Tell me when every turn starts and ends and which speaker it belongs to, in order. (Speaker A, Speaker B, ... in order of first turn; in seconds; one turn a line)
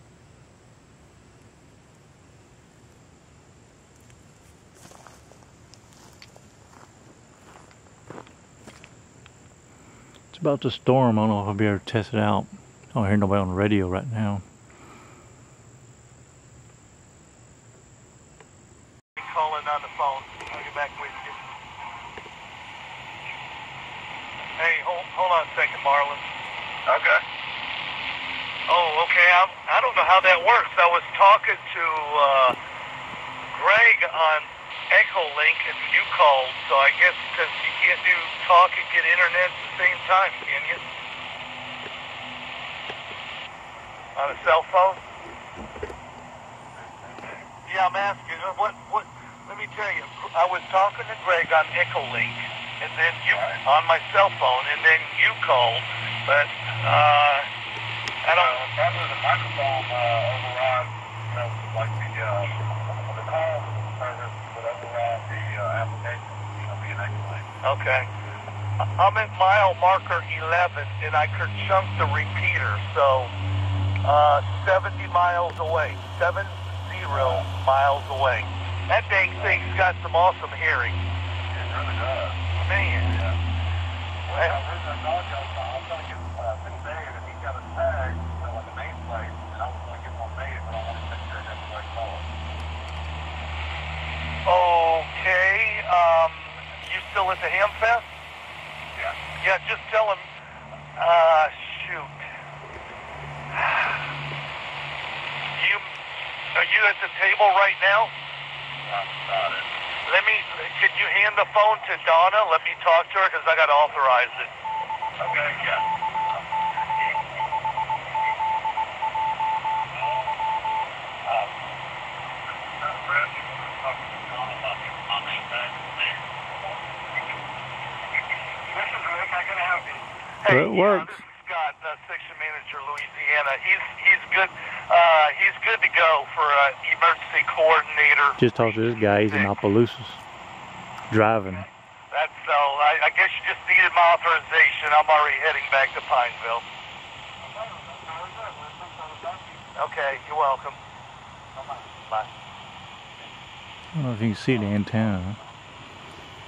Speaker A: 10.3-14.4
Speaker B: 19.2-21.4
Speaker B: 24.6-26.3
Speaker B: 26.9-27.2
Speaker B: 28.7-32.6
Speaker B: 33.4-40.8
Speaker B: 44.2-45.0
Speaker B: 47.7-57.5
Speaker B: 58.2-58.6
Speaker C: 58.3-67.5
Speaker B: 67.6-68.1
Speaker B: 68.8-73.3
Speaker B: 74.0-81.0
Speaker C: 81.5-82.4
Speaker B: 82.5-83.3
Speaker B: 84.3-84.6
Speaker C: 84.4-92.3
Speaker B: 94.5-98.1
Speaker B: 99.4-100.3
Speaker B: 101.0-102.2
Speaker B: 103.5-104.1
Speaker B: 105.5-105.9
Speaker B: 106.5-108.1
Speaker C: 108.9-109.7
Speaker B: 110.0-114.5
Speaker C: 115.2-115.9
Speaker C: 116.9-117.2
Speaker C: 120.0-120.4
Speaker C: 121.3-121.5
Speaker C: 122.6-126.2
Speaker C: 128.7-130.1
Speaker B: 130.4-139.5
Speaker A: 130.5-131.2
Speaker A: 138.4-140.2
Speaker A: 141.1-141.7
Speaker B: 142.1-146.7
Speaker C: 147.4-149.7
Speaker B: 149.8-150.8
Speaker A: 153.9-155.4